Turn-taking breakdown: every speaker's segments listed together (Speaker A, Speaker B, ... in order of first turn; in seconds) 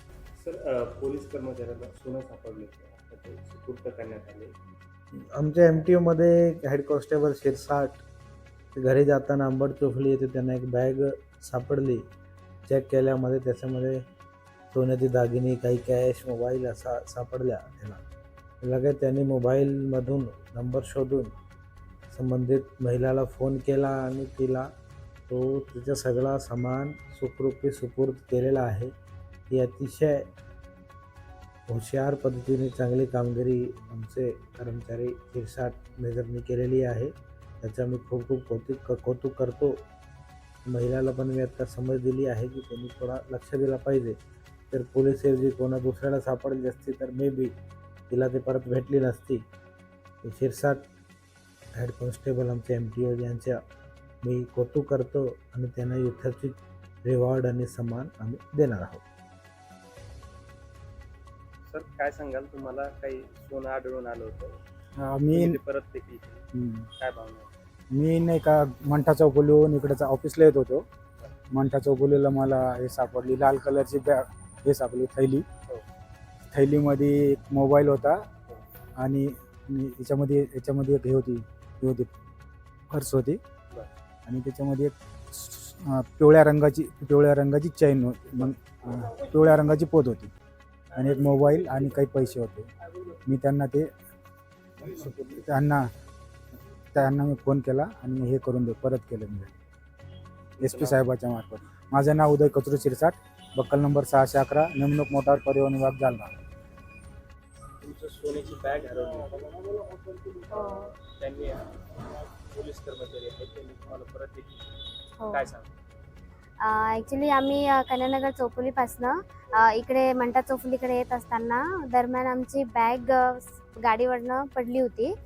Speaker A: 0.4-4.5, 61.7-64.6, 65.3-66.4, 67.0-67.5, 100.6-101.0, 107.8-111.7, 112.5-114.7, 115.3-115.7
Speaker B: 5.3-8.0, 8.8-12.1, 12.7-14.0, 14.7-18.0, 18.6-21.3, 22.1-24.7, 25.3-28.9, 29.5-30.3, 31.7-39.8, 40.6-44.2, 44.7-47.5, 48.1-49.4, 50.2-50.8, 51.7-53.6, 54.2-59.0
Speaker C: 65.0-65.6, 66.5-66.9, 67.9-70.9, 71.5-75.5, 76.5-78.2, 79.0-82.1, 82.9-83.4, 84.3-90.3, 90.9-92.7, 93.2-93.9, 94.8-95.9, 96.9-99.5, 100.6-106.3
Speaker D: 110.5-110.9, 115.2-115.5, 116.6-125.1